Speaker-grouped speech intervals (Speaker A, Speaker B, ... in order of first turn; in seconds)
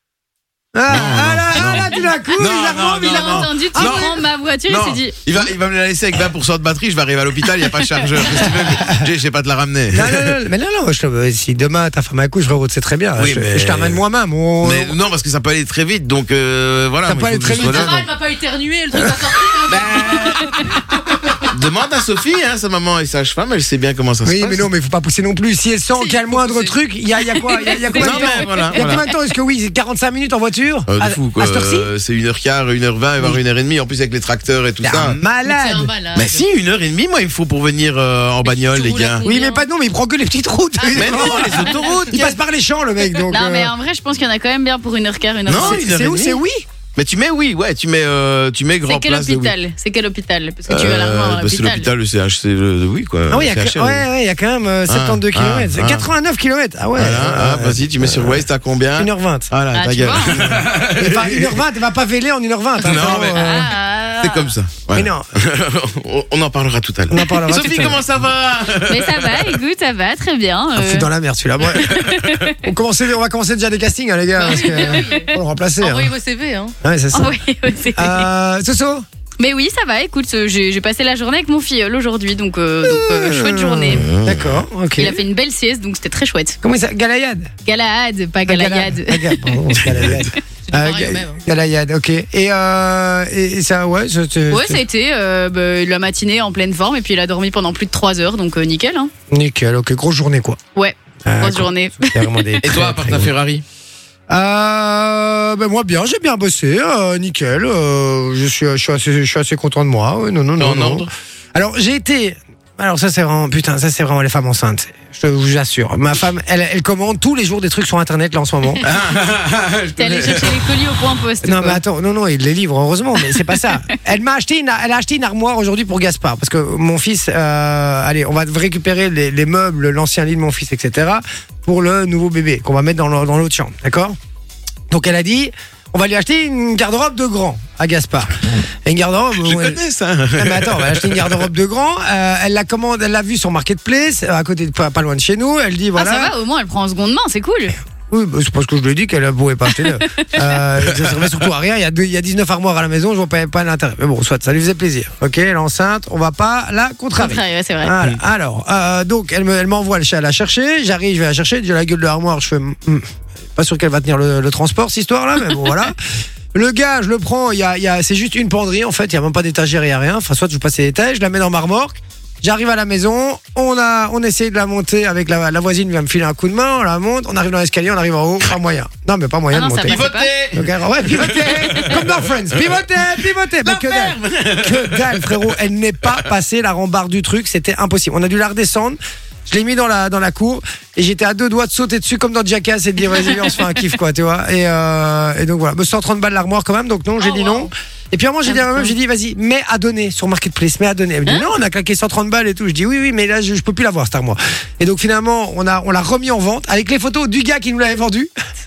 Speaker A: 0.7-4.1, 8.2-9.0, 9.9-14.9, 17.0-18.1, 24.2-31.9, 34.8-35.9, 39.2-43.7, 45.5-46.6, 53.3-59.5, 60.3-63.7, 64.9-65.3, 67.1-68.0, 70.7-72.0, 72.6-76.1, 76.8-77.4, 77.9-79.0, 82.8-85.2, 86.6-87.5, 88.5-94.8, 99.3-100.6, 101.2-103.3, 104.3-118.8, 121.4-134.2, 134.9-139.8, 140.3-146.3, 148.1-165.9, 166.5-208.3
Speaker B: 0.9-10.4, 13.2-14.0, 14.6-18.0, 19.7-20.6, 21.4-24.7, 28.0-29.0, 30.9-35.2, 36.1-39.2, 40.9-42.3, 45.5-46.4, 46.9-49.5, 50.7-54.0, 54.9-56.1, 56.9-61.6, 62.8-69.6, 71.9-72.4, 83.9-84.6, 89.7-90.3, 102.6-103.6, 110.6-111.1, 118.8-120.6, 139.4-141.4, 150.9-151.2, 179.8-182.8, 183.6-185.5
Speaker C: 2.6-5.1, 43.3-45.8, 48.9-51.9, 59.7-60.6, 62.9-64.5, 68.9-71.1, 71.7-72.6, 77.1-78.3, 79.4-84.0, 85.0-86.6, 87.6-89.5, 94.5-99.1, 100.7-102.2, 120.0-121.8, 145.9-147.7, 150.0-150.6, 157.2-157.9, 179.5-180.3
Speaker D: 17.5-21.3, 25.9-26.8, 27.3-28.7, 35.4-36.4, 38.4-39.6, 40.8-42.1, 74.4-76.7, 90.7-91.4, 197.2-197.7, 198.4-198.9